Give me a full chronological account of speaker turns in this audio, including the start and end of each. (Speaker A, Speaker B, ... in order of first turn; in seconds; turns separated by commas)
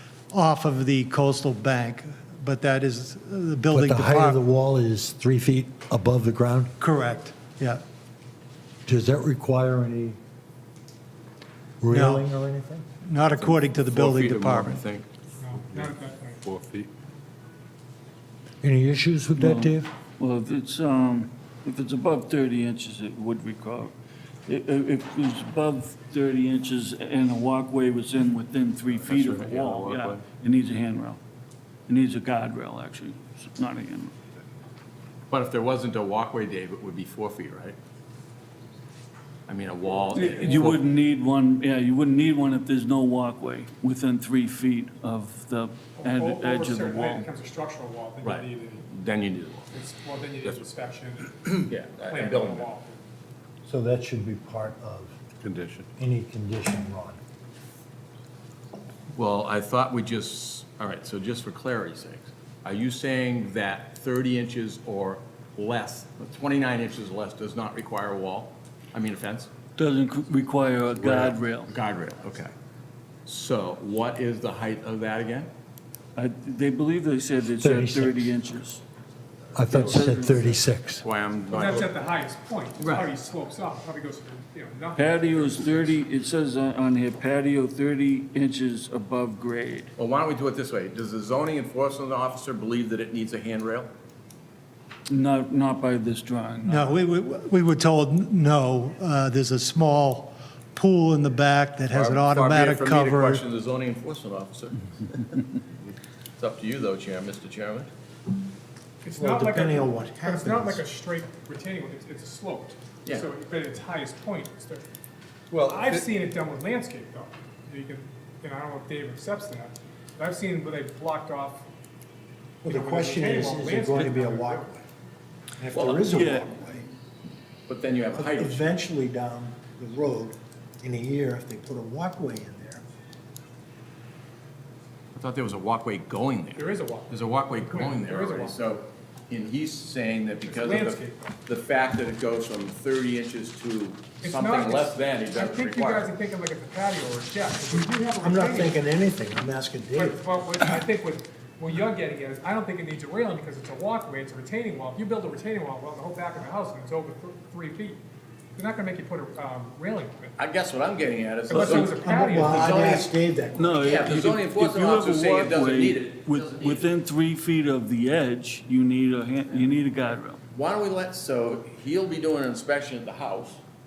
Speaker A: 0.3-4.4, Speaker B: 3.7-6.7, Speaker A: 6.8-7.8, Speaker B: 8.8-10.2, Speaker B: 11.8-12.8, Speaker A: 11.9-12.2, Speaker A: 13.0-14.8, Speaker C: 13.3-15.1, Speaker D: 15.4-16.4, Speaker E: 15.7-16.9, Speaker B: 18.6-19.9, Speaker F: 19.4-23.9, Speaker F: 24.5-31.2, Speaker E: 28.9-30.2, Speaker F: 31.9-34.2, Speaker C: 35.3-37.8, Speaker C: 39.5-40.8, Speaker F: 40.1-47.3, Speaker D: 40.1-40.6, Speaker D: 46.0-48.9, Speaker C: 48.2-49.7, Speaker D: 49.7-53.0, Speaker C: 51.6-52.7, Speaker B: 53.6-55.2, Speaker E: 55.4-55.9, Speaker B: 56.0-57.2, Speaker C: 59.1-69.5, Speaker F: 69.8-71.7, Speaker C: 71.0-72.5, Speaker C: 73.2-75.5, Speaker F: 76.2-78.8, Speaker B: 77.6-78.3, Speaker B: 79.5-81.0, Speaker F: 79.7-80.7, Speaker C: 81.0-81.9, Speaker D: 81.5-86.0, Speaker C: 82.8-83.1, Speaker F: 84.9-89.9, Speaker C: 90.0-93.9, Speaker F: 95.1-96.9, Speaker A: 96.6-103.4, Speaker C: 101.9-105.3, Speaker C: 106.4-107.9, Speaker D: 109.0-114.8, Speaker G: 109.2-110.8, Speaker C: 115.5-116.0, Speaker D: 115.6-121.7, Speaker G: 122.6-124.8, Speaker D: 122.6-124.8, Speaker G: 125.6-126.8, Speaker C: 125.7-126.1, Speaker F: 125.9-126.5, Speaker C: 127.7-128.8, Speaker G: 128.1-132.8, Speaker C: 135.1-146.1, Speaker D: 136.6-138.6, Speaker D: 140.4-141.4, Speaker D: 144.2-148.9, Speaker G: 147.7-150.2, Speaker D: 149.9-158.0, Speaker D: 158.6-160.4, Speaker C: 160.4-163.1, Speaker D: 161.5-163.1, Speaker G: 161.6-163.6, Speaker F: 163.6-170.4, Speaker C: 163.7-166.9, Speaker C: 170.5-173.6